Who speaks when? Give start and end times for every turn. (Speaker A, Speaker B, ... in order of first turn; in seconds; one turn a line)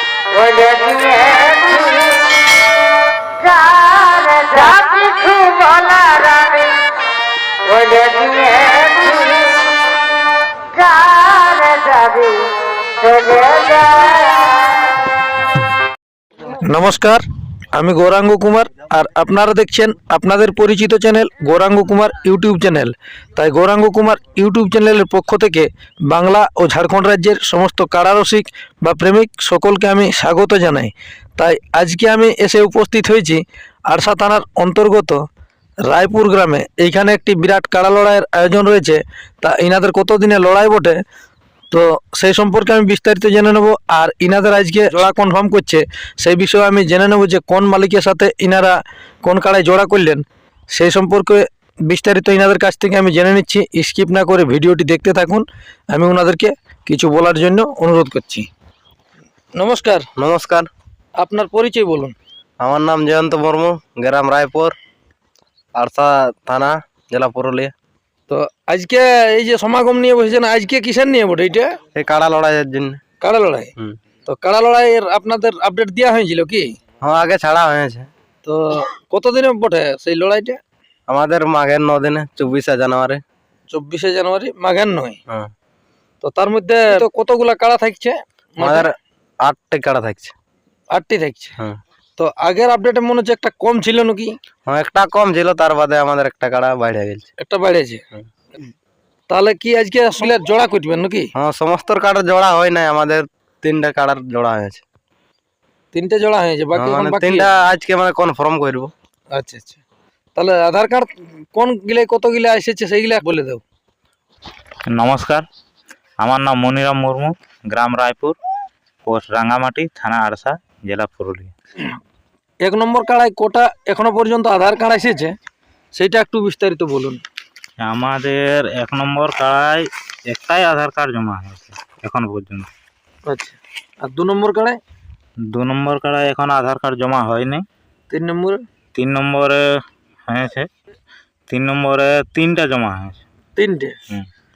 Speaker A: 0.3-2.4
Speaker A: 3.4-6.9
Speaker A: 7.6-9.8
Speaker A: 10.7-14.7
Speaker B: 16.5-17.2
Speaker B: 17.7-35.2
Speaker B: 35.9-41.0
Speaker B: 41.7-58.5
Speaker B: 59.5-60.1
Speaker C: 60.2-60.7
Speaker B: 61.2-62.1
Speaker C: 62.6-64.8
Speaker C: 65.8-67.7
Speaker B: 68.3-71.8
Speaker C: 72.0-73.0
Speaker B: 73.2-73.7
Speaker B: 74.3-76.7
Speaker C: 77.0-78.1
Speaker B: 78.4-80.6
Speaker C: 81.1-83.2
Speaker B: 83.7-85.2
Speaker B: 86.2-88.9
Speaker C: 88.6-88.9
Speaker C: 89.5-90.3
Speaker B: 90.9-91.5
Speaker B: 92.2-94.3
Speaker C: 94.7-97.3
Speaker B: 97.4-98.0
Speaker B: 99.3-101.3
Speaker C: 101.4-104.8
Speaker B: 105.9-107.5
Speaker C: 106.7-108.9
Speaker B: 109.3-109.8
Speaker B: 110.4-113.6
Speaker D: 114.9-115.5
Speaker D: 116.2-118.4
Speaker D: 119.1-121.5
Speaker B: 122.6-125.3
Speaker B: 126.0-127.2
Speaker D: 127.8-132.7
Speaker B: 133.3-134.8
Speaker D: 135.5-137.7
Speaker B: 138.1-138.6
Speaker D: 138.9-139.6
Speaker D: 140.3-140.7
Speaker D: 141.5-143.2
Speaker B: 143.6-144.0